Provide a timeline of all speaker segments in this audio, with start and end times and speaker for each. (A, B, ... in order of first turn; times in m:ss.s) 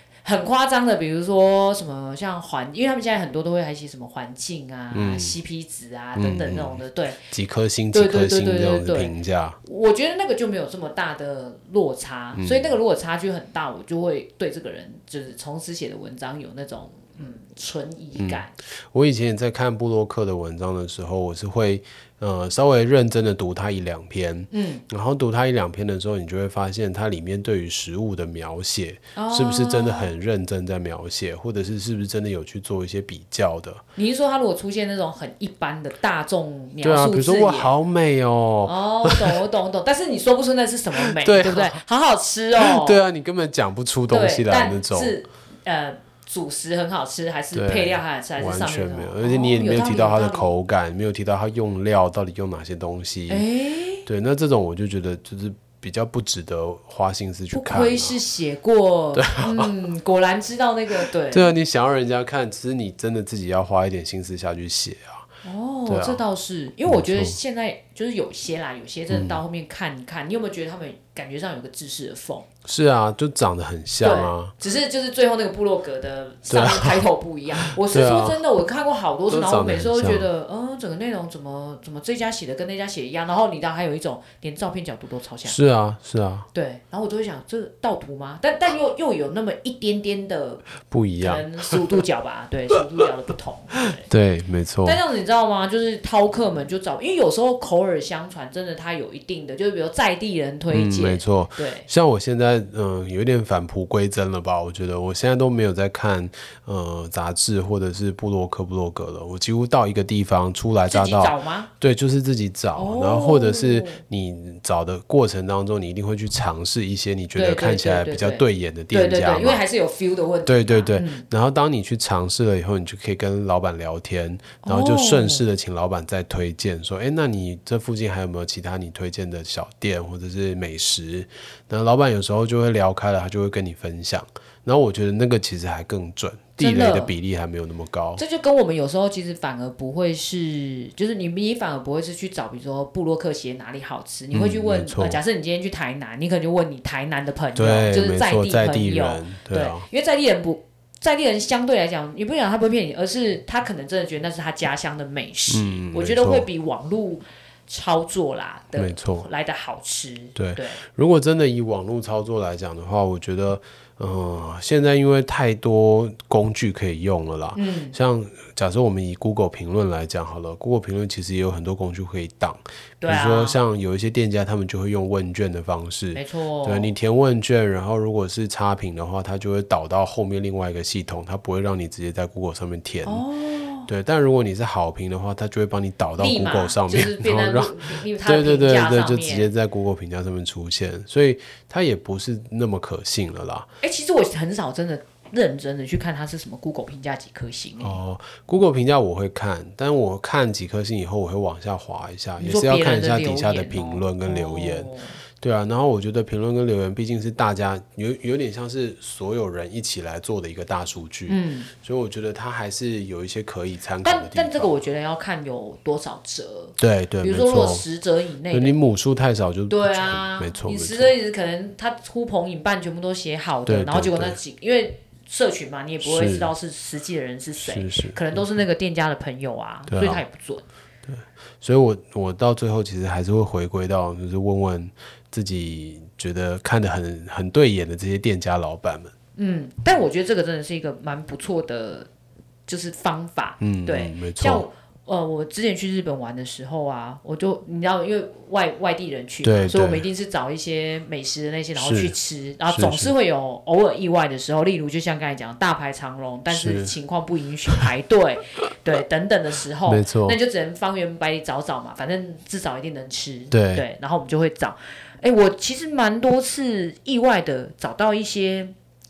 0:00.2-0:07.3 A
0:04.9-0:05.4 B
0:06.2-0:09.6 B
0:07.9-0:18.5 A
0:12.3-0:12.8 B
0:18.2-0:33.8 B
0:24.5-0:24.8 A
0:29.1-0:30.1 A
0:33.9-0:37.7 A
0:36.8-0:39.4 B
0:38.6-0:43.0 A
0:41.1-0:41.8 B
0:42.6-0:45.2 B
0:44.1-0:50.5 A
0:47.5-0:53.4 B
0:53.3-0:54.0 A
0:54.0-0:58.2 B
0:57.5-1:01.6 A
0:59.1-0:59.7 B
1:00.9-1:05.2 B
1:05.4-1:12.4 A
1:05.9-1:06.2 B
1:06.8-1:07.4 B
1:09.1-1:09.4 B
1:12.6-1:14.5 B
1:14.0-1:25.6 A
1:16.5-1:18.4 B
1:19.3-1:20.3 B
1:25.4-1:26.5 B
1:26.5-1:30.7 A
1:30.9-1:31.8 B
1:31.2-1:34.1 A
1:34.0-1:35.0 B
1:34.8-1:41.9 A
1:40.7-1:59.6 B
1:50.9-1:51.7 A
1:52.8-1:54.0 A
1:57.3-2:01.2 A
2:00.4-2:18.2 B
2:04.6-2:05.4 A
2:16.6-2:17.1 A
2:18.2-2:40.8 A
2:24.3-2:25.2 B
2:27.5-2:29.9 B
2:35.5-2:36.5 B
2:38.7-2:39.3 B
2:40.4-3:03.2 B
2:47.5-2:48.0 A
2:53.0-2:53.6 A
2:56.1-2:56.9 A
3:03.0-3:03.9 A
3:03.9-3:13.7 B
3:06.2-3:09.5 A
3:13.8-3:18.0 A
3:17.8-3:34.8 B
3:22.4-3:25.2 A
3:31.3-3:31.7 A
3:34.0-3:38.8 A
3:36.8-3:37.8 B
3:38.5-3:41.2 B
3:39.7-3:50.6 A
3:43.6-3:44.4 B
3:46.0-3:46.5 B
3:47.6-3:48.4 B
3:49.9-3:50.2 B
3:51.1-3:59.1 B
3:59.4-4:02.1 A
4:02.7-4:28.7 A
4:03.6-4:04.6 B
4:09.4-4:10.0 B
4:11.8-4:12.1 B
4:12.6-4:13.1 B
4:16.5-4:16.9 B
4:19.8-4:20.4 B
4:23.5-4:23.8 B